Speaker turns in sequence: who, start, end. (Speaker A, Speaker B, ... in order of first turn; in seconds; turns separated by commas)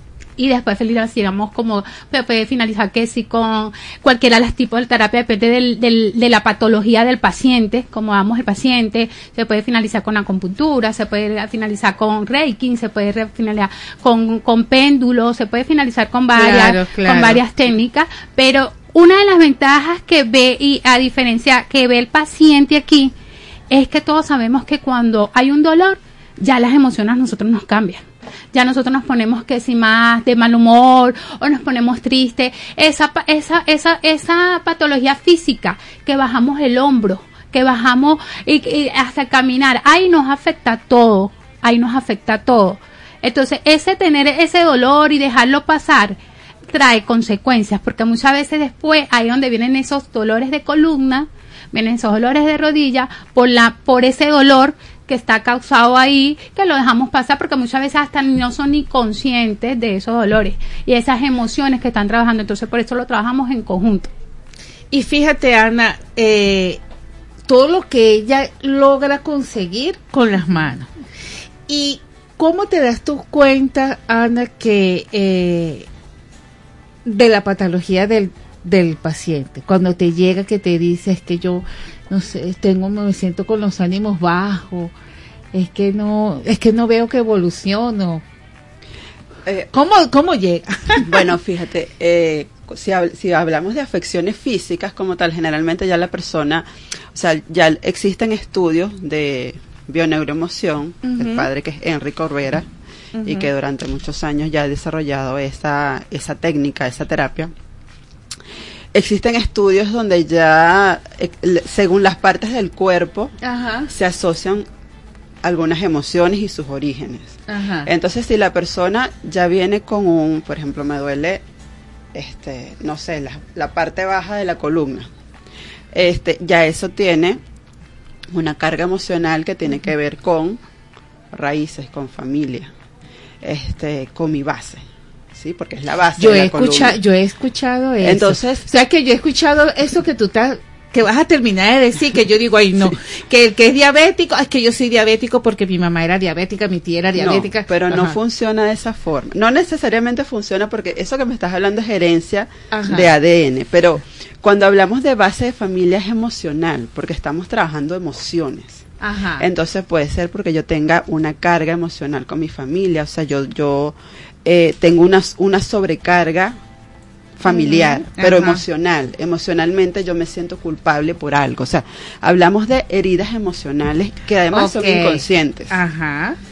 Speaker A: 0.4-23.1, Speaker B: 16.4-17.4, Speaker A: 23.7-46.2, Speaker A: 46.7-64.1, Speaker B: 64.9-66.8, Speaker B: 67.5-70.9, Speaker B: 71.7-75.9, Speaker B: 77.0-84.9, Speaker B: 85.5-88.2, Speaker B: 89.7-91.2, Speaker C: 91.0-102.7, Speaker B: 101.0-101.5, Speaker B: 103.2-103.5, Speaker C: 103.2-107.5, Speaker C: 108.9-113.3, Speaker B: 113.4-113.9, Speaker C: 113.9-114.7, Speaker C: 115.4-121.4, Speaker B: 117.5-117.9, Speaker C: 122.1-125.1, Speaker C: 125.9-127.4, Speaker C: 128.3-130.6, Speaker C: 131.3-132.7, Speaker C: 133.4-137.0, Speaker B: 136.2-148.2, Speaker C: 138.0-138.7, Speaker C: 147.2-158.9, Speaker B: 152.7-153.1, Speaker B: 159.0-159.4, Speaker C: 159.4-166.6, Speaker C: 167.4-175.7, Speaker B: 167.5-168.6, Speaker B: 174.5-176.4